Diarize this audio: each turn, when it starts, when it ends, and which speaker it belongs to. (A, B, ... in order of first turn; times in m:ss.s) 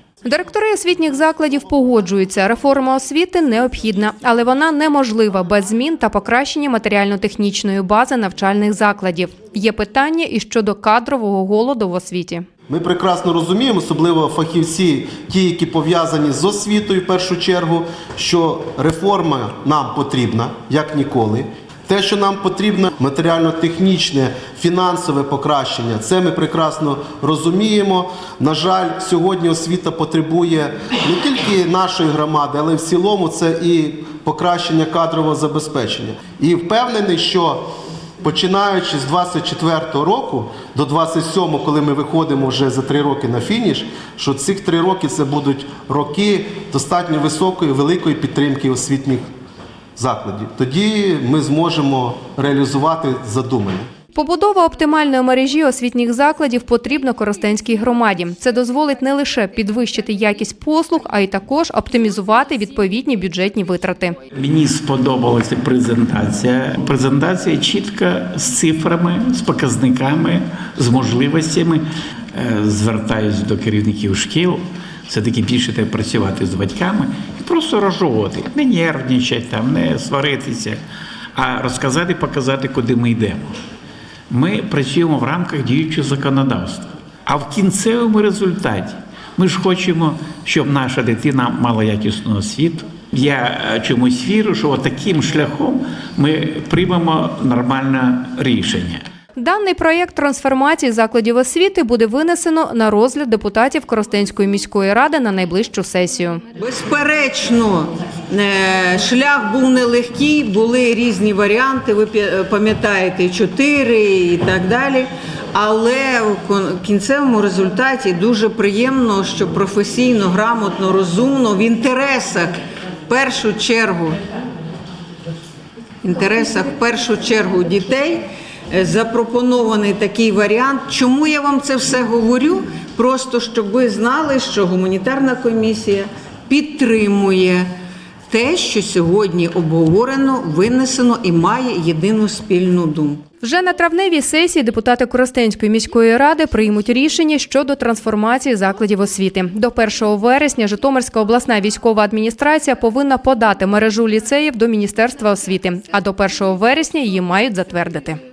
0:00.2-0:12.4 A
0:12.7-0:37.7 B
0:38.2-0:49.3 B
0:50.0-0:53.9 B
0:54.1-1:04.2 A
1:04.3-1:20.8 C
1:21.3-1:23.6 C
1:24.3-1:39.0 C
1:39.4-1:46.4 A
1:46.6-2:02.5 D
2:03.1-2:04.2 D
2:06.0-2:17.7 D
2:18.3-2:23.2 D
2:23.4-2:38.2 A